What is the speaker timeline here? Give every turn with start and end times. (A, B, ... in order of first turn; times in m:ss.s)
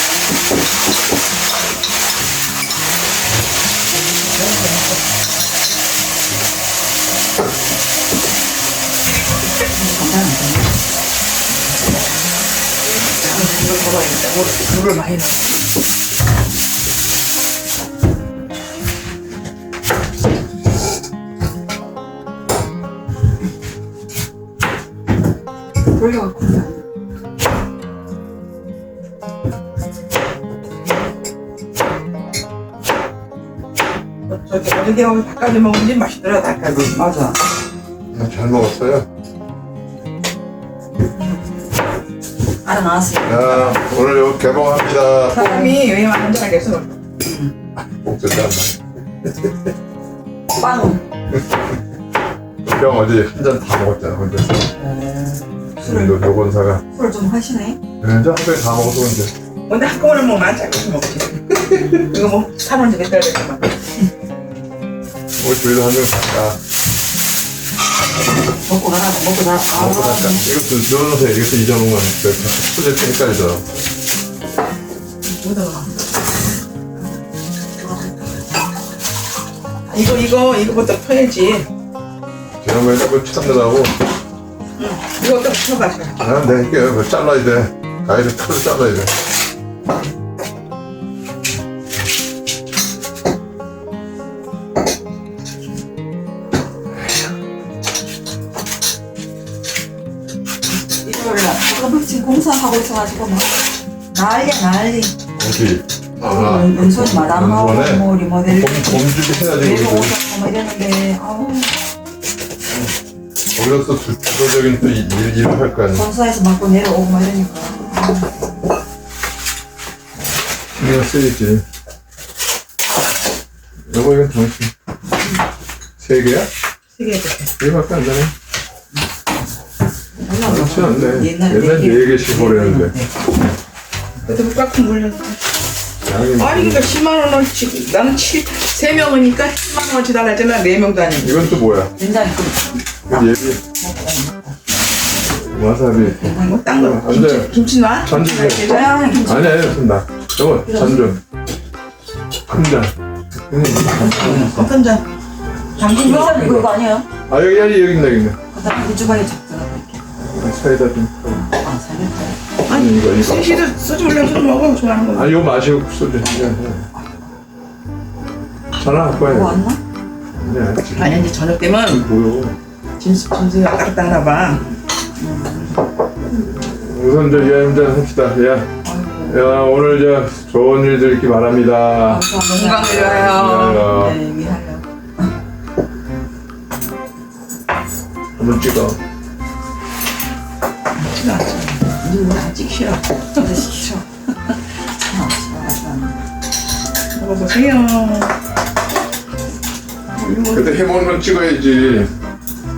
0:04.4-0:04.8 A
0:09.7-0:10.8 B
0:12.9-0:15.5 A
0:25.9-0:26.8 B
0:34.3-0:37.1 A
0:36.8-0:37.4 B
0:38.1-0:39.1 C
0:42.6-0:43.8 B
0:43.2-0:45.7 C
0:45.3-0:47.0 A
0:47.2-0:47.5 B
0:47.8-0:48.8 C
0:50.5-0:51.0 B
0:52.6-0:54.7 C
0:54.7-0:56.2 B
0:55.8-0:56.8 C
0:56.9-0:57.8 B
0:58.0-0:59.3 C
0:59.7-1:03.7 A
1:05.4-1:06.6 C
1:08.6-1:10.5 B
1:09.7-1:13.6 C
1:15.2-1:15.9 A
1:19.9-1:21.7 A
1:22.6-1:23.9 C
1:24.8-1:26.2 A
1:26.2-1:29.1 C
1:41.0-1:45.1 B
1:45.4-1:50.1 C
1:46.2-1:51.7 B
1:53.5-1:56.1 C
1:55.9-1:58.3 B
2:00.8-2:01.6 C
2:03.9-2:04.7 C
2:06.0-2:06.5 C
2:06.9-2:07.5 A
2:07.6-2:08.3 C
2:10.2-2:13.1 B
2:10.4-2:12.9 C
2:14.2-2:15.4 A
2:16.0-2:16.9 C
2:16.4-2:21.5 A
2:21.2-2:21.9 C
2:21.9-2:24.6 B
2:23.1-2:23.6 C
2:25.4-2:27.5 C
2:26.0-2:26.6 B
2:26.4-2:28.9 A
2:28.0-2:28.6 C
2:28.5-2:29.8 B
2:29.2-2:31.2 C
2:32.5-2:34.5 C
2:34.0-2:34.7 B
2:34.2-2:35.0 A
2:35.8-2:36.6 A
2:35.8-2:37.1 B
2:37.3-2:38.4 C
2:38.5-2:40.0 B
2:40.2-2:41.4 C
2:41.3-2:42.4 B
2:42.6-2:45.4 A
2:42.7-2:43.5 C
2:45.1-2:46.9 C
2:48.8-2:49.6 C
2:49.1-2:49.8 B
2:50.3-2:51.3 C
2:51.0-2:52.0 A
2:51.8-2:52.6 C
2:53.0-2:54.6 A
2:55.2-2:55.8 B
2:56.4-2:58.7 C
2:58.8-2:59.4 B
2:59.3-3:02.3 C
3:02.0-3:04.9 B
3:02.5-3:03.8 A
3:02.8-3:04.2 C
3:08.4-3:09.0 C
3:11.0-3:13.5 A
3:13.3-3:14.0 B
3:15.0-3:16.2 B
3:17.1-3:18.3 A
3:20.1-3:21.0 A
3:20.5-3:22.1 C